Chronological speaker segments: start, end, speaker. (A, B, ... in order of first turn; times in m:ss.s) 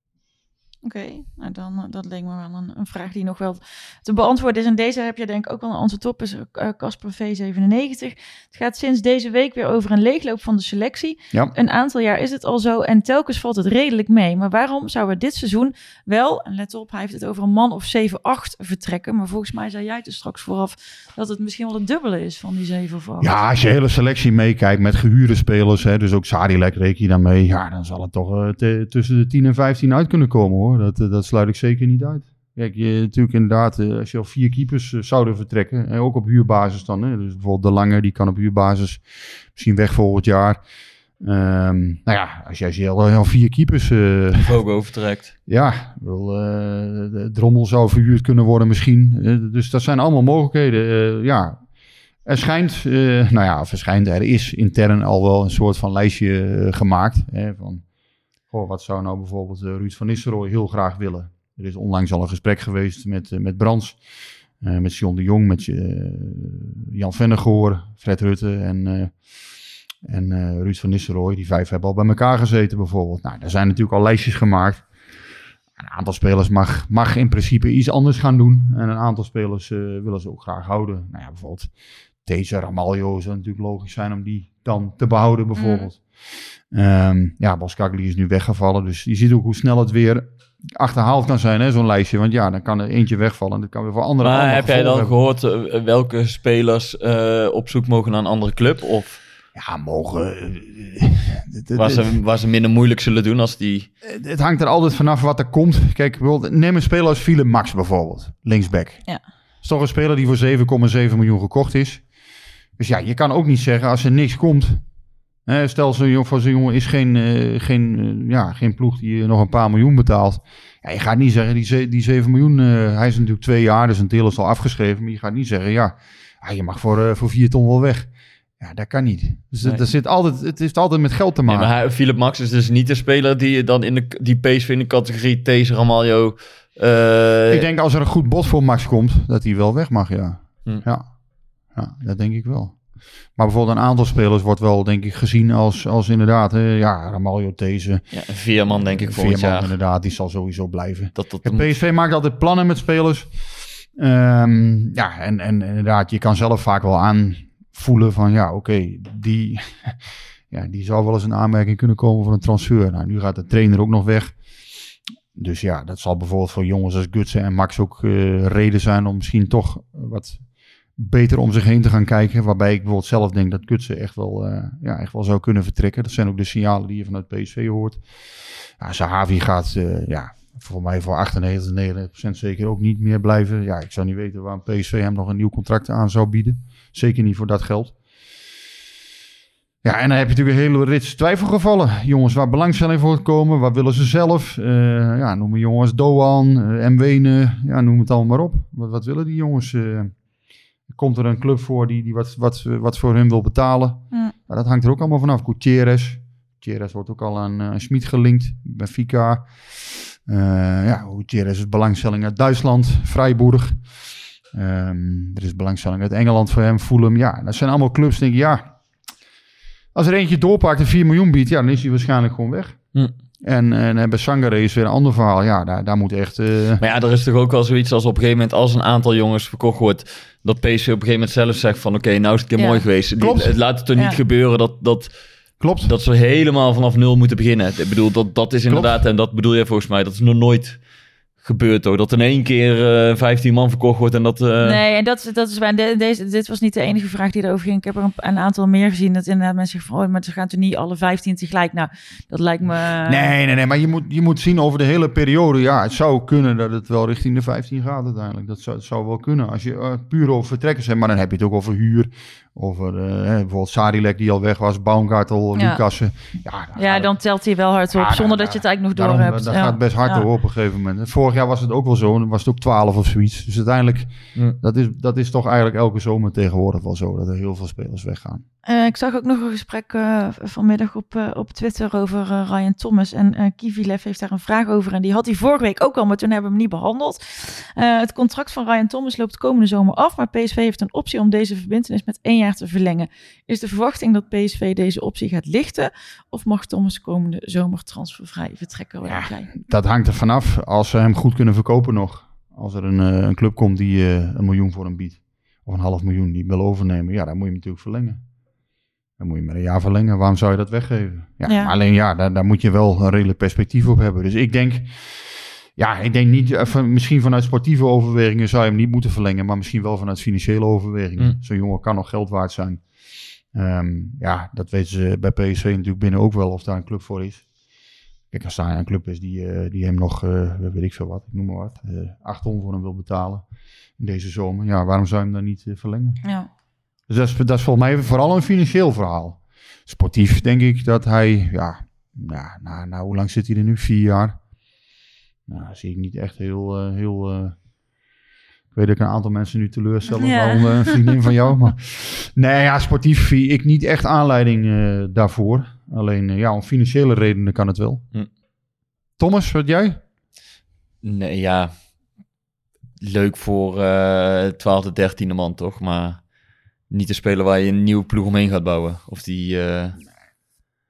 0:00.8-0:23.4 A
0:23.2-0:40.6 B
0:41.2-0:44.6 B
0:44.4-0:45.3 C
0:45.5-0:51.6 B
0:52.2-0:57.8 B
0:58.5-1:04.0 B
1:04.6-1:09.2 B
1:10.0-1:14.9 B
1:15.8-1:21.7 B
1:22.3-1:26.1 B
1:25.6-1:25.8 A
1:26.7-1:35.1 B
1:34.2-1:39.2 C
1:39.6-1:42.1 B
1:41.7-1:43.9 C
1:44.0-1:49.0 B
1:49.6-1:52.0 B
1:52.8-1:54.8 B
1:55.4-2:11.7 B
2:11.5-2:17.7 C
2:17.5-2:21.1 B
2:21.7-2:28.1 B
2:28.1-2:29.7 C
2:28.7-2:44.4 B
2:31.2-2:31.7 C
2:45.3-2:58.0 B
2:58.8-3:08.0 B
3:09.8-3:20.1 B
3:20.9-3:33.9 B
3:34.5-3:38.7 B
3:40.0-3:42.8 B
3:43.4-3:46.8 B
3:46.8-3:55.1 C
3:52.6-3:52.8 A
3:53.2-3:53.6 B
3:55.6-3:55.9 B
3:55.8-4:00.8 C
3:58.7-3:59.0 B
4:01.4-4:04.8 C
4:04.6-4:13.3 A
4:13.0-4:27.1 B
4:25.6-4:25.8 A
4:26.8-4:30.2 A
4:27.9-4:38.4 B
4:38.7-4:59.5 A
4:59.0-5:08.2 B
5:09.2-5:15.2 B
5:11.4-5:11.7 A
5:15.8-5:22.9 B
5:23.5-5:27.4 B
5:28.3-5:33.4 B
5:34.0-5:36.2 B
5:37.1-5:44.4 B
5:45.5-5:47.6 B
5:48.7-5:58.0 B
5:50.2-5:51.3 A
5:59.2-6:00.0 B
6:01.0-6:01.7 C
6:03.0-6:06.2 C
6:06.9-6:10.0 C